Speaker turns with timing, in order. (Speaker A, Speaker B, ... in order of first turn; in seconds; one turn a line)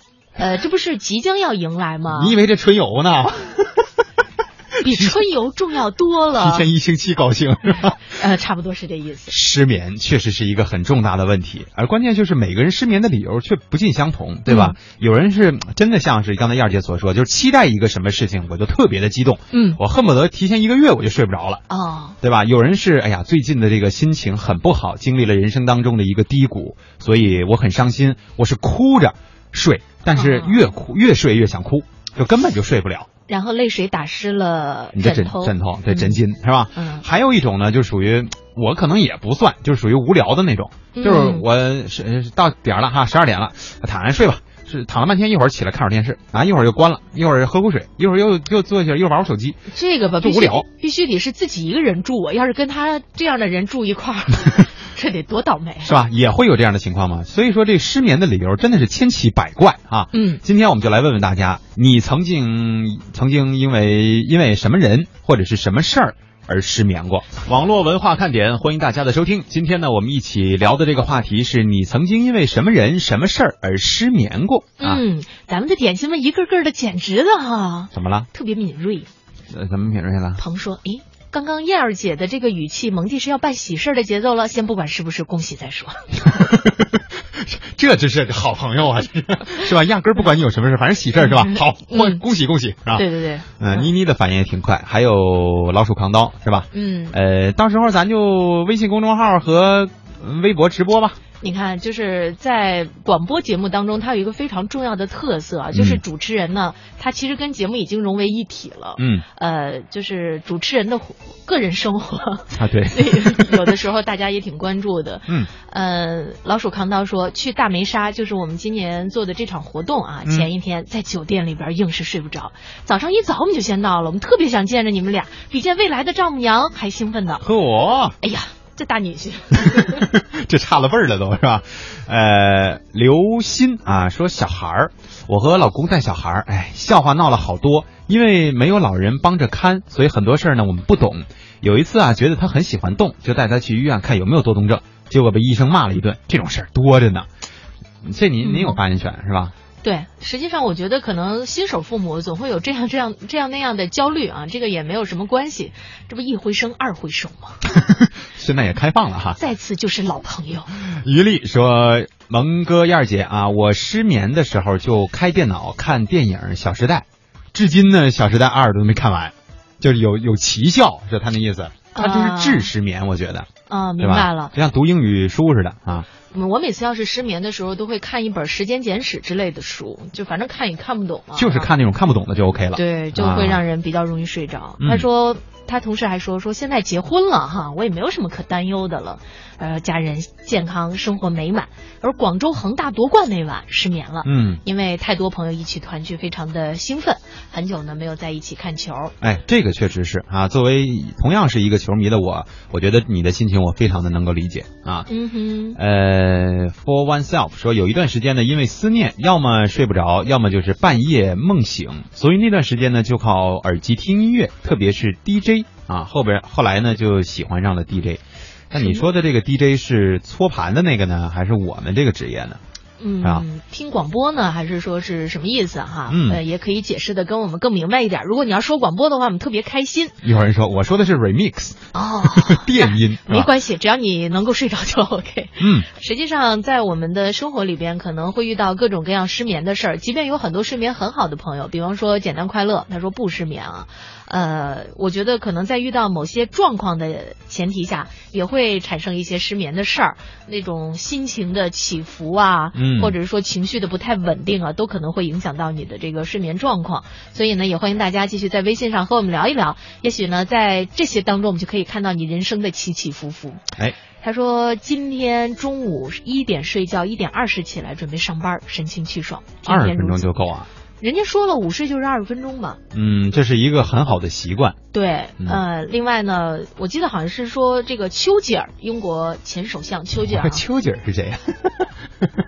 Speaker A: 0.4-2.4
Speaker B: 2.1-3.8
Speaker A: 4.8-6.7
Speaker B: 4.8-5.2
Speaker B: 6.4-8.2
Speaker A: 8.1-9.3
Speaker B: 9.3-21.6
Speaker A: 14.5-14.8
Speaker A: 19.5-19.8
Speaker A: 21.7-22.2
Speaker B: 22.2-33.1
Speaker A: 30.1-30.6
Speaker A: 33.3-36.2
Speaker B: 35.0-49.6
Speaker A: 36.8-37.0
Speaker A: 40.9-41.5
Speaker A: 49.7-56.0
Speaker B: 50.2-50.6
Speaker B: 55.8-75.0
Speaker A: 60.1-60.4
Speaker A: 74.8-79.1
Speaker B: 77.9-78.3
Speaker B: 79.5-80.4
Speaker A: 80.4-86.1
Speaker B: 86.2-93.0
Speaker A: 91.2-92.2
Speaker A: 93.0-93.9
Speaker B: 93.6-101.2
Speaker A: 96.7-97.2
Speaker A: 101.4-127.5
Speaker B: 105.7-106.0
Speaker B: 109.0-109.2
Speaker B: 112.6-113.7
Speaker B: 127.4-128.2
Speaker A: 128.2-130.1
Speaker B: 129.6-147.3
Speaker B: 148.1-149.5
Speaker A: 148.4-148.8
Speaker A: 149.8-157.6
Speaker B: 157.7-159.4
Speaker A: 159.4-160.7
Speaker B: 160.9-173.5
Speaker A: 171.9-172.7
Speaker A: 173.7-174.5
Speaker B: 174.0-176.1
Speaker A: 176.3-181.7
Speaker B: 181.4-183.6
Speaker A: 182.8-199.1
Speaker B: 184.8-185.1
Speaker B: 194.2-194.6
Speaker B: 199.2-205.1
Speaker A: 205.1-205.8
Speaker B: 205.8-222.6
Speaker A: 218.7-219.1
Speaker A: 223.0-230.1
Speaker B: 226.1-226.4
Speaker B: 230.2-233.5
Speaker A: 231.9-263.6
Speaker B: 235.6-235.9
Speaker B: 252.8-253.2
Speaker A: 264.2-270.3
Speaker B: 269.6-270.7
Speaker A: 271.0-272.8
Speaker B: 272.9-274.8
Speaker A: 274.9-280.6
Speaker B: 280.3-281.9